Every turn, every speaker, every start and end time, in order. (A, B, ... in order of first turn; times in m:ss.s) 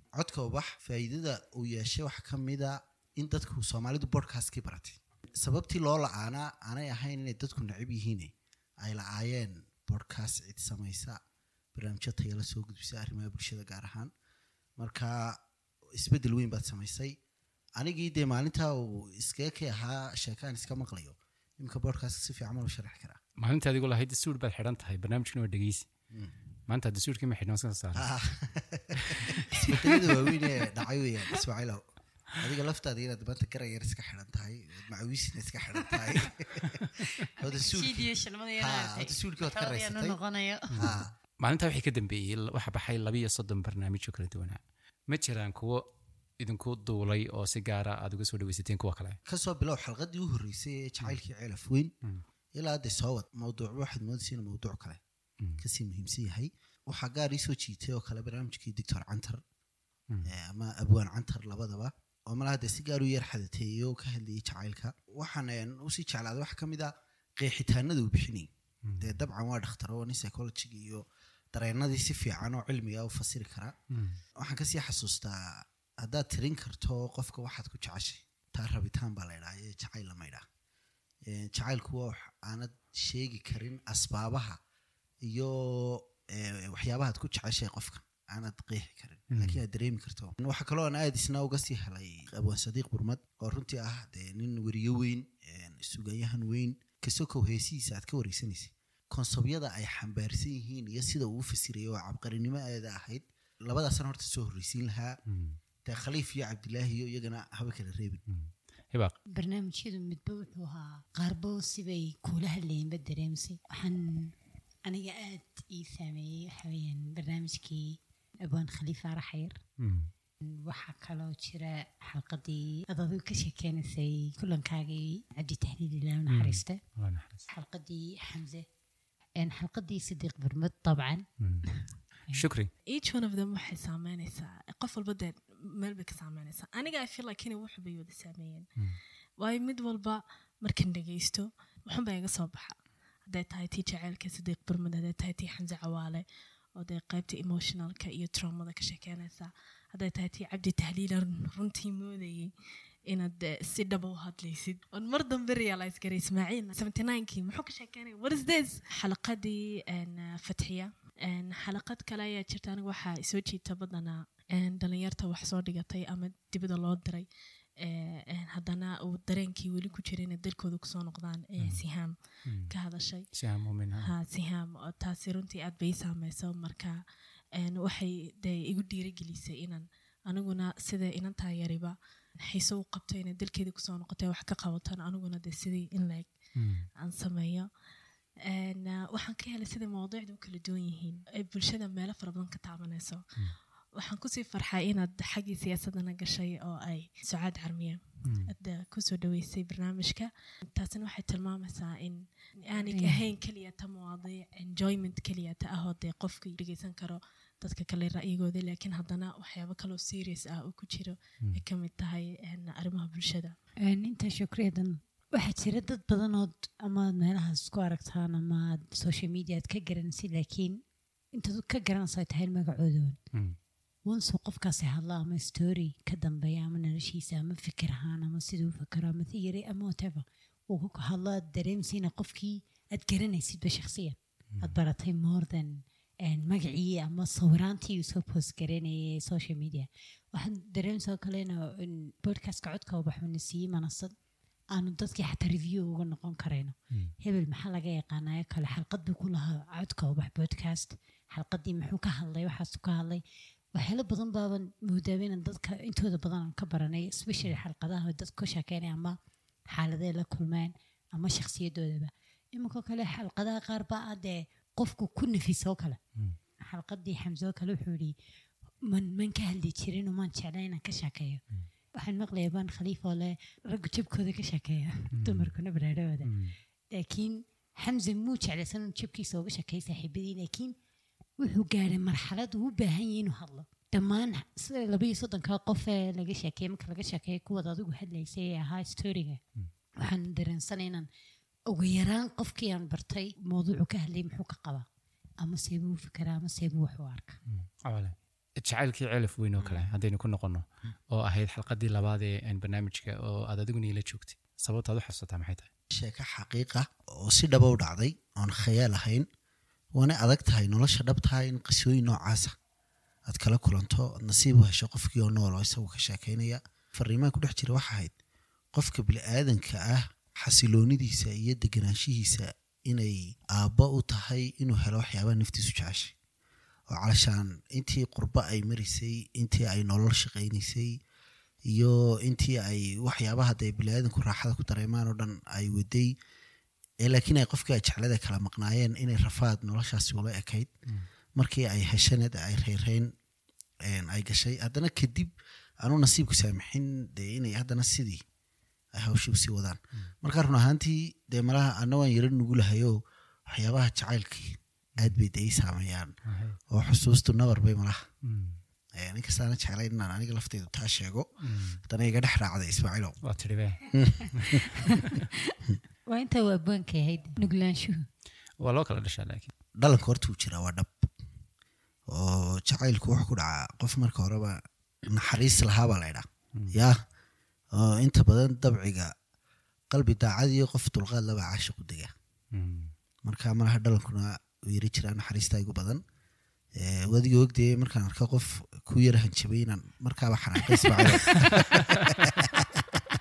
0:00.2-0:11.2 A
0:11.7-0:14.1 A
0:14.8-0:15.4 A
0:15.9-0:17.1 A
0:17.8-0:23.2 A
0:23.4-0:25.9 B
0:26.7-0:28.1 B
0:28.0-0:31.8 A
0:29.0-0:29.3 B
0:32.4-0:40.2 A
0:37.4-0:40.8 C
0:40.7-0:41.1 A
0:40.8-0:45.8 B
0:46.4-0:49.2 B
0:49.2-0:51.9 A
0:52.5-0:55.0 A
0:55.6-0:59.4 A
1:00.2-1:08.5 A
1:08.8-1:09.1 B
1:09.0-1:13.7 A
1:13.9-1:14.2 B
1:14.4-1:20.4 A
1:21.2-1:24.6 A
1:25.2-1:45.2 A
1:29.3-1:29.6 B
1:45.3-1:45.6 B
1:45.8-1:48.2 A
1:48.3-1:49.1 B
1:49.3-1:59.6 C
1:59.8-2:00.1 B
2:00.4-2:06.8 C
2:06.3-2:07.5 B
2:07.5-2:08.6 C
2:09.4-2:12.4 C
2:11.4-2:11.6 B
2:12.3-2:12.7 B
2:12.9-2:18.7 D
2:19.4-2:26.2 D
2:26.8-2:32.5 D
2:33.1-2:47.2 D
2:47.8-2:52.2 D
2:52.4-2:52.7 B
2:52.7-2:53.2 D
2:53.3-2:54.1 B
2:54.0-2:57.0 D
2:57.5-3:06.3 D
3:06.6-3:06.8 B
3:07.0-3:07.7 D
3:08.4-3:13.2 D
3:14.0-3:33.6 D
3:18.2-3:18.5 B
3:22.8-3:23.2 C
3:33.8-3:40.8 C
3:41.3-3:43.2 C
3:44.0-4:04.1 C
4:04.7-4:13.2 C
4:13.7-4:19.2 C
4:19.7-4:26.0 C
4:26.6-4:28.1 C
4:28.8-4:31.4 C
4:32.0-4:36.3 C
4:35.1-4:35.5 B
4:36.2-4:36.5 B
4:36.9-4:40.7 C
4:41.4-4:49.4 C
4:50.0-4:51.1 C
4:51.7-4:54.8 C
4:55.4-4:57.4 C
4:57.5-5:05.7 B
5:05.9-5:09.2 A
5:10.0-5:12.5 A
5:13.3-5:18.1 A
5:18.7-5:26.1 A
5:26.9-5:31.0 A
5:31.7-5:36.1 A
5:37.0-5:40.7 A
5:41.4-5:43.1 A
5:43.8-5:48.2 A
5:48.9-5:53.0 A
5:53.5-5:56.1 A
5:56.3-5:56.6 B
5:56.7-5:58.0 A
5:58.2-5:58.6 B
5:59.0-6:01.3 A
6:01.4-6:01.8 B
6:01.8-6:03.2 A
6:03.2-6:03.8 B
6:03.9-6:04.6 A
6:04.3-6:05.2 B
6:06.1-6:08.1 C
6:08.6-6:09.5 B
6:09.8-6:11.1 A
6:12.1-6:17.0 A
6:17.7-6:19.1 A
6:19.9-6:22.1 A
6:22.5-6:22.9 B
6:23.2-6:26.0 A
6:26.8-6:32.8 A
6:31.4-6:32.3 B